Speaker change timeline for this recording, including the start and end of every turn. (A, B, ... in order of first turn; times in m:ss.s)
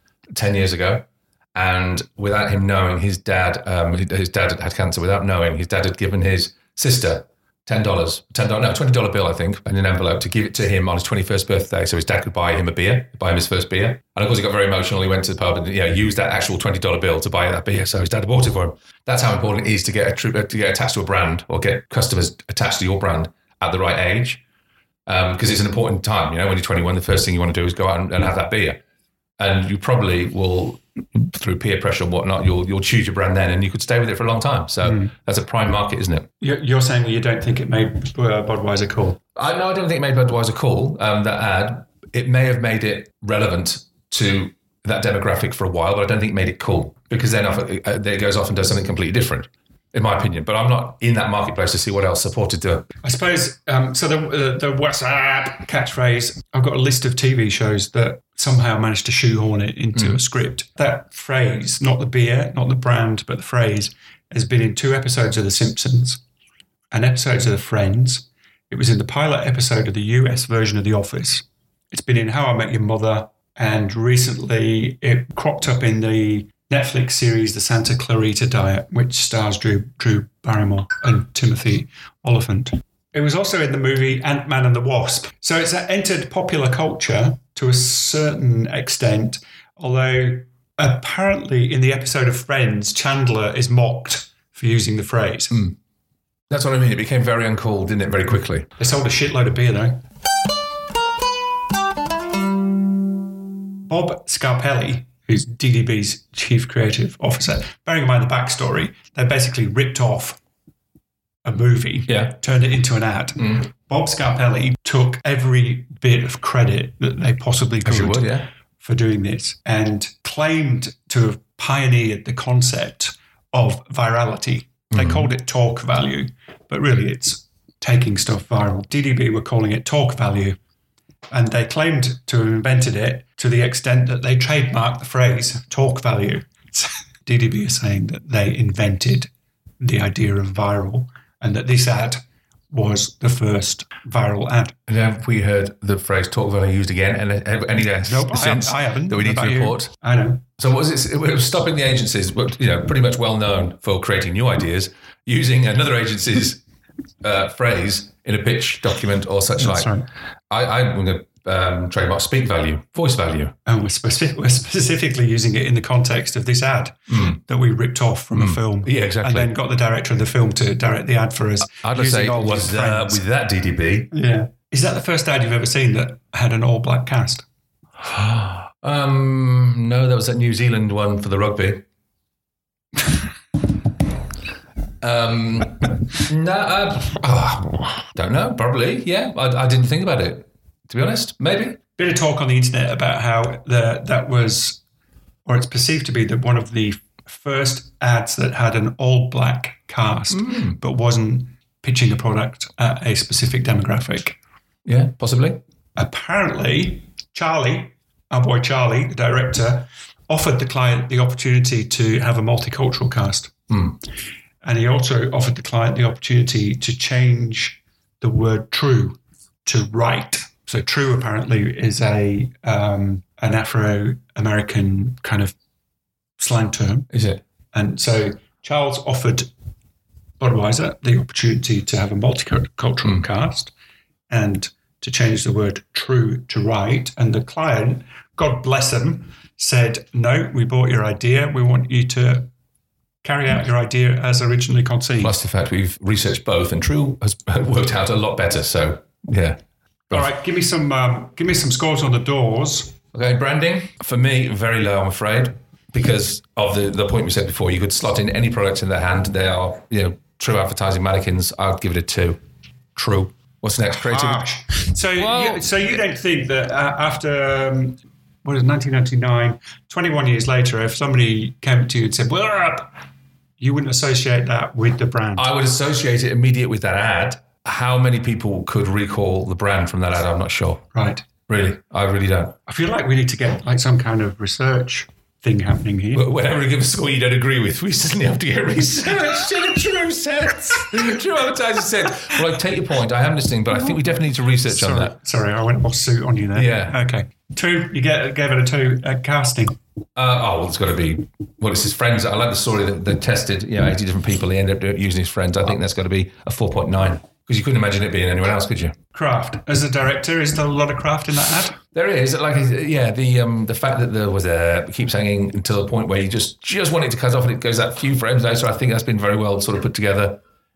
0:00.3-0:24.4 A
0:25.1-0:28.8 A
0:29.4-0:36.3 A
0:34.8-0:35.1 B
0:36.4-0:39.2 B
0:39.4-0:52.9 A
0:53.0-1:06.2 B
1:06.9-1:35.6 B
1:36.5-1:38.7 A
1:38.8-1:40.0 B
1:43.9-1:50.4 B
1:51.4-2:10.6 B
1:52.1-1:52.4 A
1:57.8-1:58.5 A
2:04.9-2:05.3 A
2:11.3-2:19.3 B
2:19.8-2:24.8 B
2:24.9-2:29.9 A
2:28.0-2:30.4 B
2:30.6-2:36.6 A
2:37.2-2:39.9 A
2:39.6-2:40.0 B
2:40.5-2:43.6 A
2:43.6-2:53.2 B
2:47.1-2:47.4 A
2:48.3-2:49.5 A
2:51.8-2:54.1 A
2:54.1-2:57.4 B
2:58.0-3:01.8 A
3:05.0-3:11.8 A
3:12.0-3:14.8 B
3:15.4-3:24.4 B
3:20.3-3:20.8 A
3:24.8-3:25.6 A
3:26.0-3:33.7 B
3:33.7-3:34.0 A
3:34.6-3:45.5 B
3:46.4-3:47.1 B
3:47.1-3:47.4 A
3:47.7-3:49.5 B
3:50.4-3:53.7 B
3:54.3-4:02.5 B
4:03.2-4:05.3 B
4:05.2-4:09.6 A
4:10.1-4:12.9 B
4:13.1-4:22.4 A
4:23.0-4:24.4 A
4:24.0-4:32.9 B
4:25.2-4:26.0 A
4:33.6-4:35.5 B
4:35.4-4:40.9 A
4:40.9-4:41.3 B
4:41.5-4:42.6 A
4:42.6-4:46.2 B
4:46.1-4:55.1 A
4:53.7-4:54.0 B
4:54.6-4:59.8 B
4:56.5-4:57.0 A
5:00.2-5:09.0 A
5:09.1-5:11.8 B
5:11.9-5:20.4 A